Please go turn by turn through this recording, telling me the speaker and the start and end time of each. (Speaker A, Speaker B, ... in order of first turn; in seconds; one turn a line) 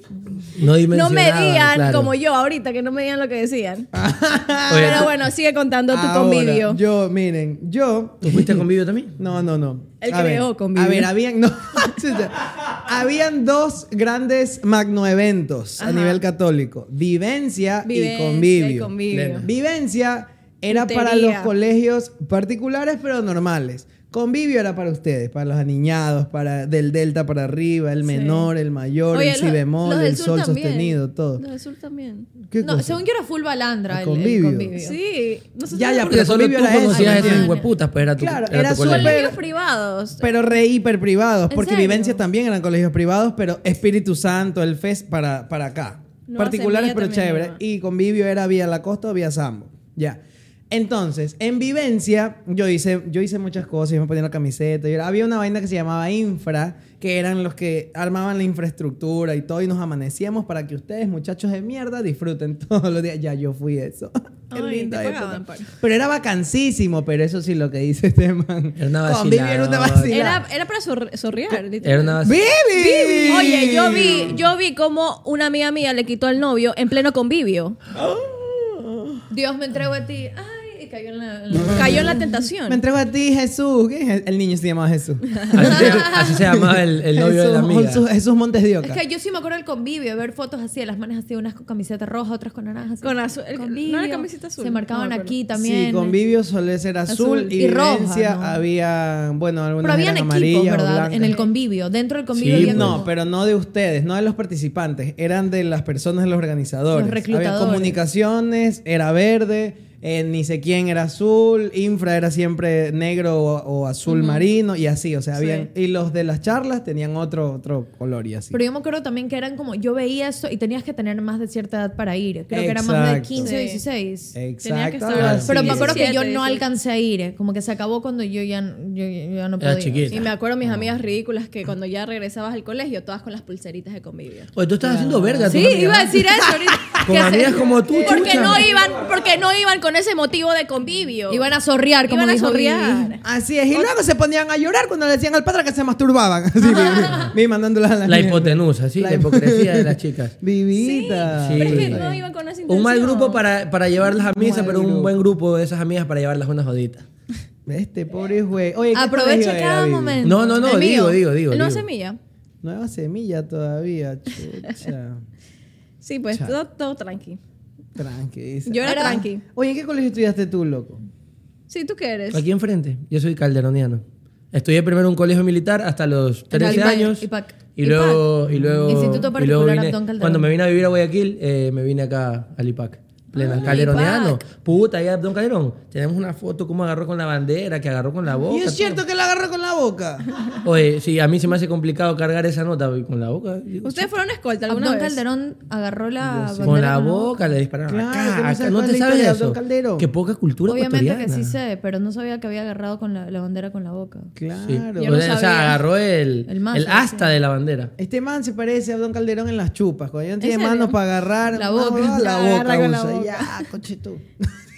Speaker A: 0.6-2.1
Speaker B: 0.6-3.9
Speaker C: 3.9-5.1
Speaker A: 4.7-5.1
Speaker B: 4.7-6.8
Speaker C: 5.9-8.6
Speaker A: 8.2-9.2
Speaker C: 9.2-31.4
Speaker B: 10.0-11.1
Speaker B: 15.8-16.2
Speaker B: 17.8-19.4
Speaker A: 19.1-19.5
Speaker B: 20.7-21.5
Speaker D: 28.1-28.4
Speaker B: 29.1-32.3
Speaker C: 32.5-33.0
Speaker D: 32.6-35.0
Speaker C: 33.9-34.7
Speaker B: 34.8-36.4
Speaker C: 35.7-37.5
Speaker A: 35.8-39.3
Speaker D: 36.9-37.7
Speaker C: 38.1-39.4
Speaker B: 38.7-40.5
Speaker C: 40.2-70.4
Speaker D: 41.5-42.2
Speaker B: 46.3-47.6
Speaker B: 64.5-65.7
Speaker A: 68.8-70.2
Speaker B: 70.1-77.8
Speaker A: 71.8-72.4
Speaker C: 72.2-74.4
Speaker C: 77.9-79.2
Speaker D: 79.3-82.3
Speaker C: 81.6-81.8
Speaker B: 81.7-82.8
Speaker C: 82.7-89.0
Speaker A: 85.5-88.0
Speaker D: 85.6-86.3
Speaker D: 88.8-96.2
Speaker B: 93.0-95.3
Speaker C: 95.5-101.4
Speaker B: 97.1-97.5
Speaker D: 97.5-98.6
Speaker D: 99.8-103.1
Speaker A: 102.3-103.0
Speaker C: 102.5-118.6
Speaker D: 106.9-108.0
Speaker D: 114.1-114.4
Speaker B: 115.4-115.7
Speaker D: 118.5-124.3
Speaker C: 122.5-123.5
Speaker B: 123.4-123.8
Speaker C: 124.3-126.0
Speaker B: 124.6-126.6
Speaker A: 125.1-125.5
Speaker D: 125.5-130.2
Speaker A: 129.6-130.8
Speaker B: 130.1-134.5
Speaker A: 134.5-136.2
Speaker C: 134.8-137.0
Speaker D: 135.5-138.6
Speaker A: 137.0-138.7
Speaker B: 137.9-141.5
Speaker D: 141.3-143.1
Speaker B: 142.1-143.2
Speaker C: 143.2-152.2
Speaker D: 146.7-147.3
Speaker A: 148.1-150.3
Speaker B: 150.7-153.4
Speaker A: 151.4-152.1
Speaker A: 152.7-157.1
Speaker C: 154.2-155.2
Speaker C: 157.7-160.2
Speaker D: 158.9-161.2
Speaker A: 160.2-161.8
Speaker B: 160.6-162.2
Speaker C: 162.6-165.2
Speaker B: 166.0-167.4
Speaker C: 167.9-171.0
Speaker B: 168.7-169.4
Speaker D: 168.8-169.2
Speaker B: 171.7-172.4
Speaker A: 172.3-189.0
Speaker D: 176.5-178.3
Speaker D: 178.8-180.5
Speaker D: 183.3-184.3
Speaker B: 183.3-184.4
Speaker C: 188.5-190.3
Speaker A: 190.6-194.1
Speaker B: 193.8-195.2
Speaker D: 194.7-197.3
Speaker C: 196.3-196.8
Speaker A: 196.6-201.6
Speaker C: 197.9-200.1
Speaker D: 200.7-204.3
Speaker C: 204.3-205.2
Speaker A: 204.6-207.9
Speaker B: 205.0-205.8
Speaker D: 206.5-207.3
Speaker C: 208.0-214.5
Speaker B: 210.4-211.0
Speaker D: 211.5-213.2